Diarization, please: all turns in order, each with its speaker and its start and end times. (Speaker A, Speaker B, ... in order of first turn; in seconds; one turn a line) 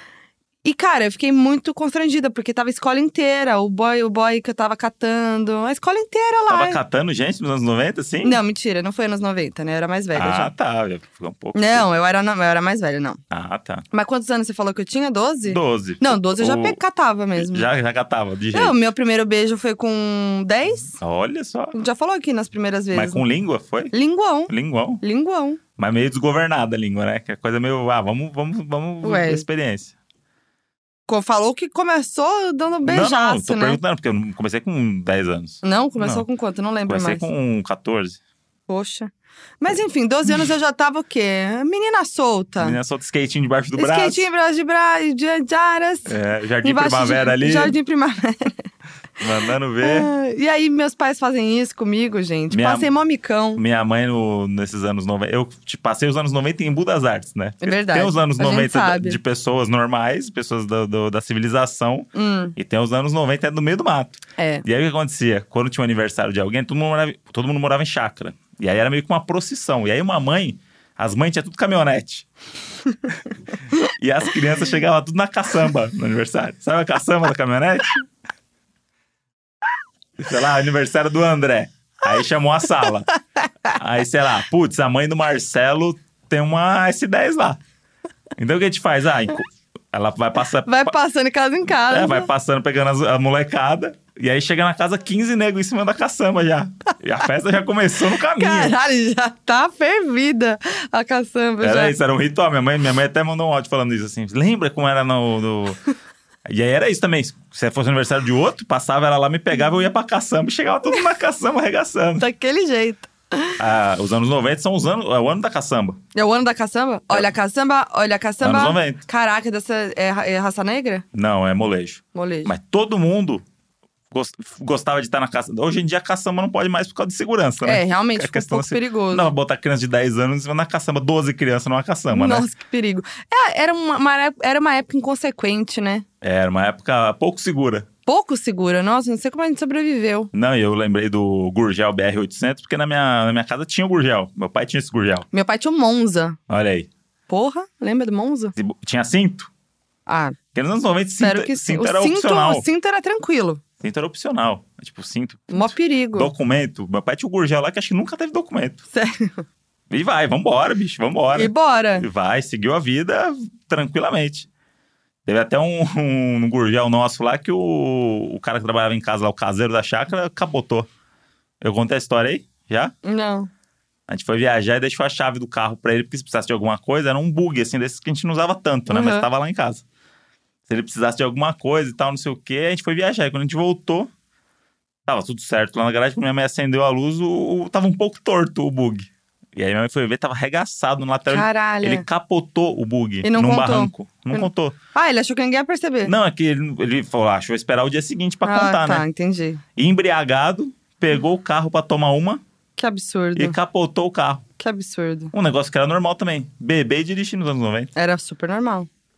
Speaker A: 0.6-6.8
Speaker B: 6.5-8.4
Speaker A: 8.2-10.5
Speaker B: 10.1-11.8
Speaker A: 11.6-13.2
Speaker B: 13.3-13.8
Speaker A: 13.9-17.7
Speaker B: 15.5-16.8
Speaker B: 17.4-18.8
Speaker A: 18.5-21.0
Speaker B: 21.0-21.8
Speaker A: 21.7-23.2
Speaker B: 22.9-23.9
Speaker A: 23.9-25.6
Speaker B: 24.5-25.0
Speaker B: 25.8-29.9
Speaker A: 29.0-29.4
Speaker A: 31.1-33.8
Speaker B: 32.9-36.2
Speaker A: 35.6-37.3
Speaker B: 36.9-38.2
Speaker A: 38.7-42.8
Speaker B: 42.6-44.3
Speaker A: 43.8-48.6
Speaker B: 46.1-47.8
Speaker B: 49.2-50.1
Speaker A: 49.8-53.6
Speaker B: 52.5-52.9
Speaker B: 53.6-72.3
Speaker A: 57.6-59.2
Speaker A: 62.1-62.6
Speaker A: 64.4-64.7
Speaker B: 73.8-78.0
Speaker B: 80.2-83.1
Speaker B: 83.7-87.6
Speaker B: 88.4-90.9
Speaker A: 90.6-92.3
Speaker B: 91.9-98.8
Speaker A: 98.2-102.0
Speaker B: 101.6-105.8
Speaker B: 106.5-112.3
Speaker A: 112.2-113.6
Speaker B: 113.6-116.0
Speaker A: 116.2-121.0
Speaker B: 118.4-119.0
Speaker B: 121.1-123.4
Speaker A: 122.1-122.5
Speaker B: 124.1-132.5
Speaker A: 127.6-129.3
Speaker A: 132.1-136.1
Speaker B: 136.2-137.9
Speaker A: 138.1-140.3
Speaker B: 140.3-145.3
Speaker A: 145.3-146.4
Speaker B: 146.5-146.9
Speaker A: 147.3-148.5
Speaker B: 148.6-149.5
Speaker A: 150.1-150.4
Speaker B: 150.5-152.7
Speaker A: 151.2-153.6
Speaker B: 153.8-158.8
Speaker A: 155.5-156.3
Speaker A: 158.9-159.4
Speaker B: 159.9-164.5
Speaker A: 161.3-162.1
Speaker B: 165.3-170.9
Speaker B: 171.6-172.9
Speaker A: 173.0-173.5
Speaker B: 174.1-179.8
Speaker A: 178.9-179.3
Speaker B: 180.7-184.1
Speaker B: 185.1-194.8
Speaker A: 191.3-192.1
Speaker A: 193.2-196.1
Speaker B: 196.0-199.0
Speaker A: 198.4-199.6
Speaker B: 199.8-202.4
Speaker A: 202.8-203.6
Speaker B: 203.4-204.4
Speaker A: 204.6-205.3
Speaker B: 205.3-207.9
Speaker A: 207.9-208.9